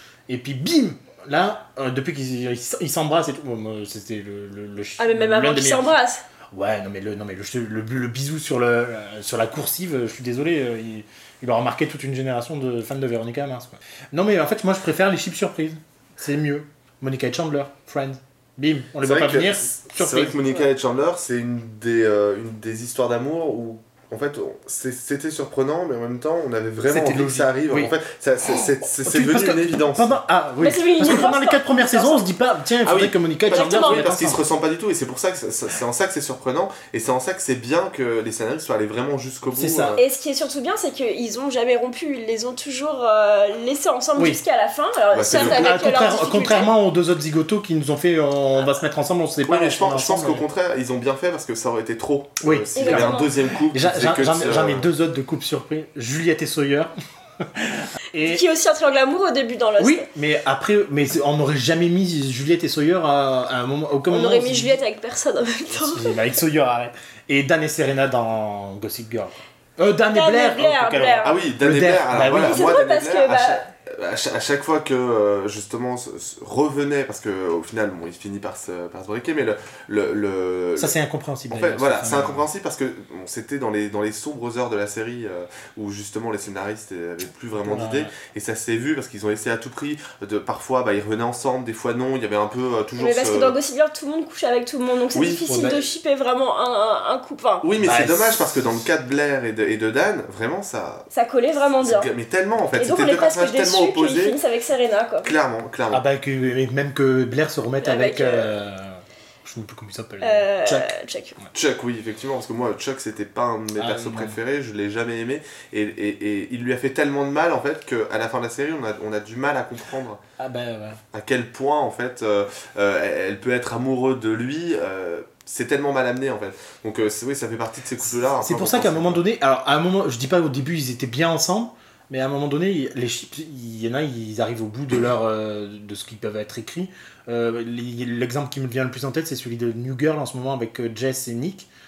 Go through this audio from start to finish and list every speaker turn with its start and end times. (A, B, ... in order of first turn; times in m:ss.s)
0:00.3-0:06.0 A
0:05.0-0:06.2 B
0:06.5-0:20.4 A
0:19.0-0:30.2 C
0:26.9-0:34.4 A
0:30.6-0:32.3 B
0:32.8-0:40.0 C
0:33.5-0:34.1 B
0:39.5-0:40.0 A
0:40.0-0:46.7 B
0:45.1-0:45.7 C
0:45.3-0:50.4 A
0:49.4-0:54.9 C
0:52.4-0:56.9 A
0:52.7-0:53.3 B
0:57.6-0:58.4 A
0:58.2-1:00.0 B
0:59.8-1:04.8 A
1:04.1-1:06.2 B
1:05.7-1:12.6 A
1:10.1-1:11.4 B
1:11.2-1:20.9 C
1:12.3-1:13.6 B
1:20.8-1:22.5 A
1:21.5-1:33.6 C
1:27.6-1:28.1 A
1:33.0-1:37.6 B
1:35.1-1:35.4 C
1:35.5-1:35.8 A
1:37.6-1:41.1 C
1:37.8-1:38.8 A
1:41.1-1:42.1 B
1:41.8-1:44.4 C
1:42.8-1:45.3 B
1:45.2-1:46.0 C
1:45.9-1:51.5 A
1:47.8-1:48.5 B
1:50.2-1:51.3 B
1:51.5-2:00.2 C
1:53.7-1:54.4 A
2:00.4-2:01.0 A
2:01.1-2:09.2 C
2:08.0-2:21.7 A